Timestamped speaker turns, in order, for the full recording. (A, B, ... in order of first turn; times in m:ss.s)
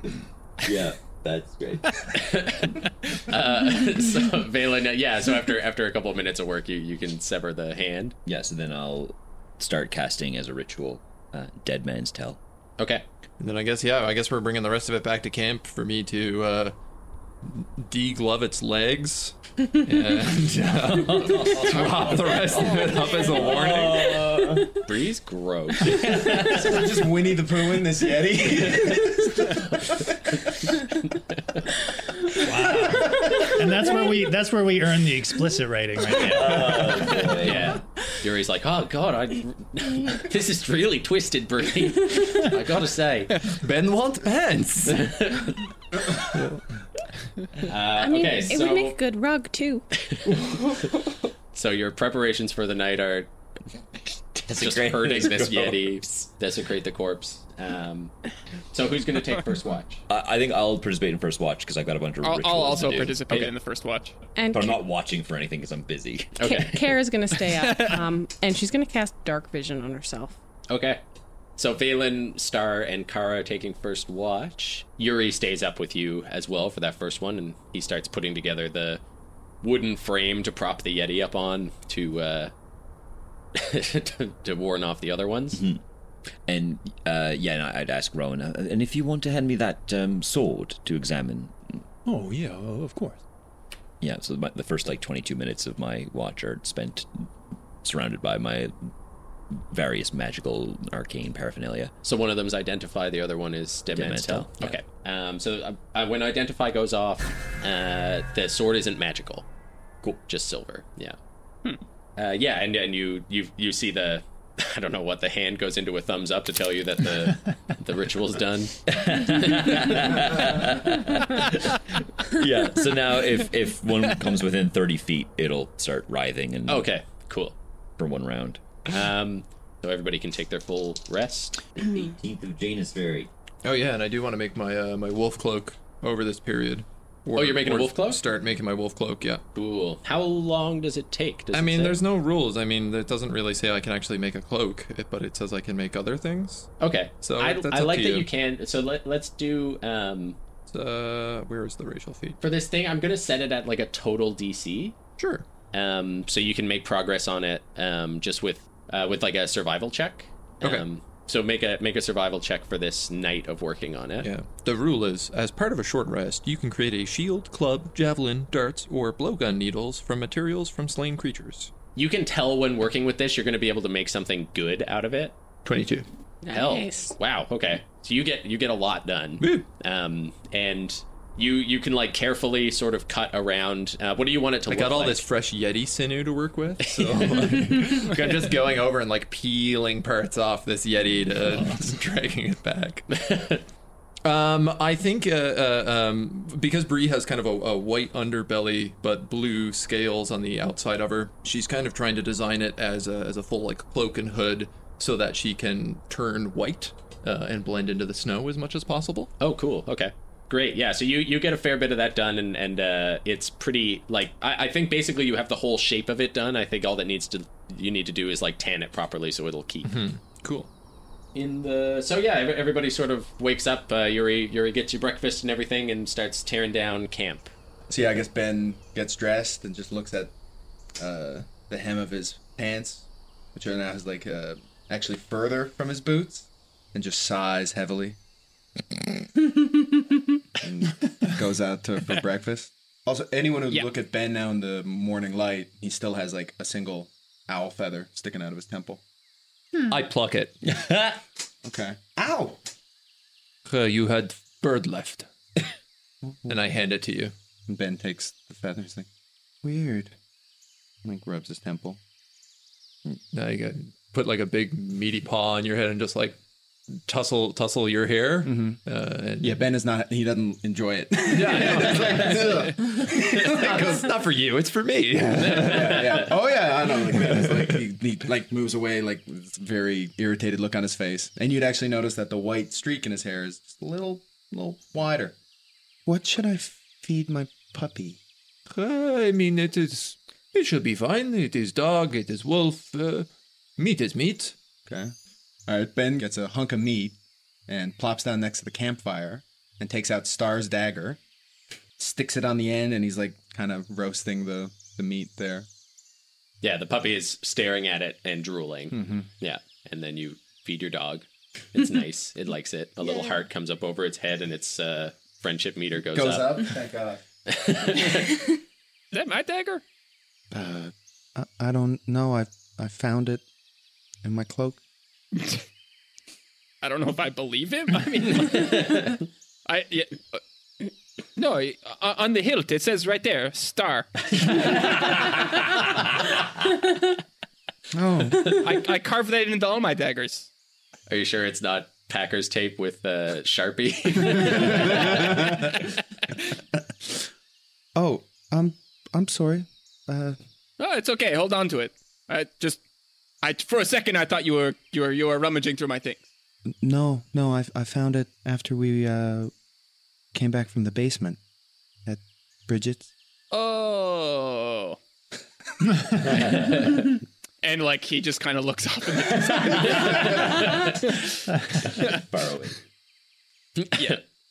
0:00.6-0:02.2 A
0:02.1-0:08.1 B
0:08.2-0:12.4 A
0:12.8-0:13.0 B
0:13.4-0:16.7 C
0:17.4-0:24.2 C
0:20.8-0:24.8 A
0:24.8-0:26.4 B
0:25.8-0:27.0 A
0:26.2-0:29.4 D
0:32.4-0:36.9 E
0:36.1-0:37.8 A
0:37.4-0:43.4 B
0:43.5-0:45.2 C
0:44.8-0:45.7 B
0:47.6-0:49.0 B
0:47.9-0:49.8 F
0:51.5-0:53.3 B
0:54.4-0:56.2 A
0:54.5-0:58.1 B
0:58.7-1:00.0 B
1:00.1-1:03.2 A
1:02.2-1:04.2 G
1:03.3-1:03.5 B
1:04.3-1:04.7 F
1:04.5-1:06.5 A
1:06.4-1:06.8 B
1:06.4-1:10.4 F
1:07.4-1:08.0 G
1:10.7-1:11.0 B
1:11.6-1:19.0 B
1:19.6-1:22.5 B
1:23.5-1:25.6 B
1:25.5-1:25.8 A
1:26.5-1:31.5 A
1:32.0-1:33.2 E
1:34.0-1:37.3 A
1:37.8-1:38.7 A
1:39.5-1:41.9 A
1:42.0-1:49.4 B
1:43.9-1:44.8 A
1:50.0-1:51.2 B
1:52.2-1:58.8 B
1:58.9-2:06.9 A
1:59.4-2:00.3 B
2:06.7-2:07.6 B
2:08.0-2:08.6 A
2:08.9-2:11.6 B
2:11.8-2:13.3 A
2:13.6-2:19.4 C
2:17.3-2:18.2 B
2:19.5-2:22.0 B
2:21.5-2:26.7 C
2:26.8-2:30.4 B
2:27.2-2:28.3 C
2:30.7-2:32.4 C
2:32.4-2:35.0 B
2:35.2-2:35.4 C
2:35.7-2:44.3 B
2:44.2-2:51.7 C
2:51.9-2:55.4 B
2:55.6-2:56.0 C
2:56.4-2:57.1 F
2:56.5-3:05.2 B
2:59.4-2:59.6 C
3:04.7-3:13.0 C
3:06.9-3:07.9 B
3:13.1-3:13.6 B
3:14.2-3:29.3 C
3:29.4-3:39.9 B
3:39.8-3:40.7 C
3:41.3-3:47.5 B
3:47.9-3:50.3 D
3:51.0-3:58.2 D
4:00.6-4:09.0 D
4:09.9-4:10.6 C
4:10.7-4:11.2 A
4:11.6-4:12.6 D
4:13.6-4:15.3 C
4:16.5-4:17.3 C
4:17.7-4:19.1 D
4:19.6-4:20.1 H
4:21.0-4:22.0 D
4:23.1-4:26.4 C
4:27.0-4:29.6 C
4:28.4-4:28.8 D
4:29.4-4:34.1 D
4:31.3-4:36.3 C
4:35.3-4:45.4 D
4:37.1-4:37.8 C
4:46.0-4:48.2 H
4:48.7-4:54.6 C
4:54.8-4:55.1 D
4:55.7-4:57.2 D
4:57.7-5:01.2 D
5:02.0-5:05.7 D
5:06.6-5:16.5 B
5:08.9-5:09.3 D
5:16.1-5:17.2 D
5:17.5-5:18.3 B
5:19.1-5:19.8 G
5:20.5-5:23.4 H
5:24.2-5:24.8 H
5:26.8-5:30.4 G
5:31.4-5:35.0 G
5:37.9-5:38.5 H
5:38.3-5:40.5 G
5:41.1-5:45.4 B
5:44.4-5:45.4 D
5:48.0-5:50.4 H
5:50.8-5:52.8 G
5:53.4-5:56.2 G
5:56.8-5:59.5 H
6:00.3-6:01.4 H
6:02.0-6:03.1 H
6:03.5-6:05.0 G
6:06.4-6:06.9 G
6:07.6-6:11.1 G
6:09.9-6:11.0 B
6:12.0-6:12.7 A
6:13.8-6:14.2 B